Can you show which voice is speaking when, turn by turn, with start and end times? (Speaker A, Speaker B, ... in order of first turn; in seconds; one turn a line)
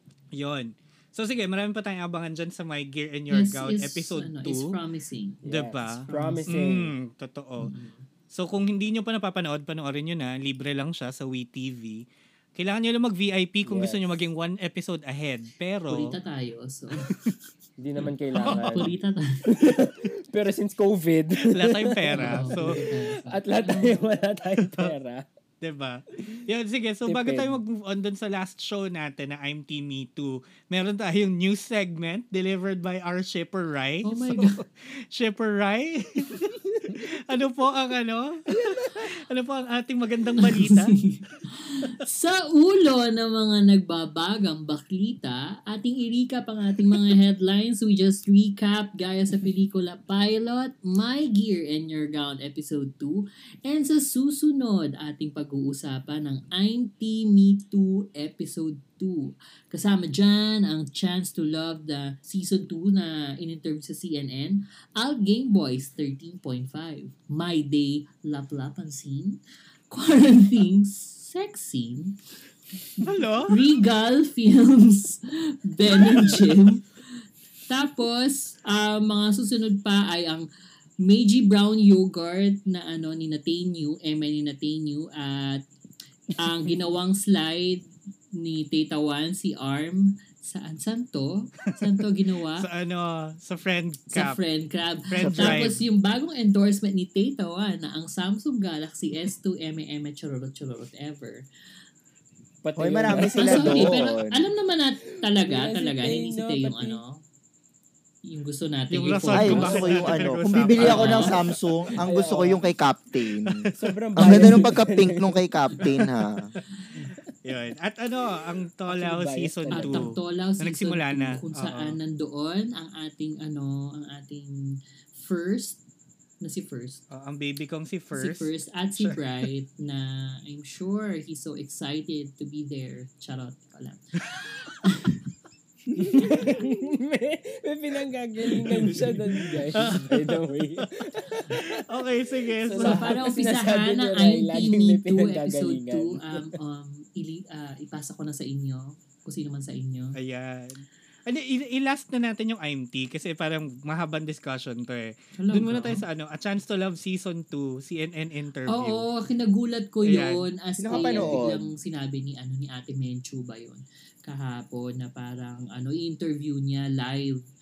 Speaker A: 0.3-4.7
Speaker B: 3.3-6.5
Speaker C: 5.4-6.9
Speaker A: 5.5-7.7
Speaker B: 7.6-8.1
Speaker A: 8.3-12.0
Speaker A: 12.6-16.1
Speaker C: 13.7-14.2
Speaker B: 15.9-17.3
Speaker C: 17.8-18.9
Speaker A: 18.3-18.9
Speaker B: 18.5-19.6
Speaker C: 19.5-25.2
Speaker A: 21.5-22.8
Speaker B: 22.1-24.1
Speaker A: 24.6-24.9
Speaker A: 25.6-41.0
Speaker C: 27.1-27.6
Speaker B: 34.0-34.6
Speaker D: 38.6-38.9
Speaker B: 40.4-72.2
Speaker B: 73.0-80.5
Speaker A: 73.0-73.6
Speaker B: 81.0-85.6
Speaker B: 86.4-92.7
Speaker A: 92.6-94.4
Speaker B: 94.1-101.4
Speaker A: 95.1-95.8
Speaker D: 95.2-95.7
Speaker C: 102.6-104.0
Speaker D: 102.8-104.5
Speaker B: 103.3-107.2
Speaker C: 105.3-107.0
Speaker B: 108.2-110.1
Speaker A: 108.9-111.5
Speaker D: 109.3-113.6
Speaker B: 110.8-111.3
Speaker C: 112.0-112.6
Speaker A: 113.4-114.0
Speaker C: 113.8-115.9
Speaker D: 114.2-116.5
Speaker A: 117.4-122.0
Speaker C: 118.9-120.1
Speaker B: 119.7-125.8
Speaker B: 126.4-127.0
Speaker A: 127.1-129.2
Speaker B: 128.1-135.3
Speaker C: 135.9-141.8
Speaker D: 136.0-136.3
Speaker B: 136.2-136.5
Speaker B: 139.7-140.0
Speaker A: 139.8-143.1
Speaker C: 142.4-146.5
Speaker B: 142.8-150.2
Speaker A: 150.2-159.0
Speaker B: 155.4-156.0
Speaker B: 158.7-167.4
Speaker A: 160.1-160.4
Speaker D: 160.8-161.7
Speaker C: 160.9-161.4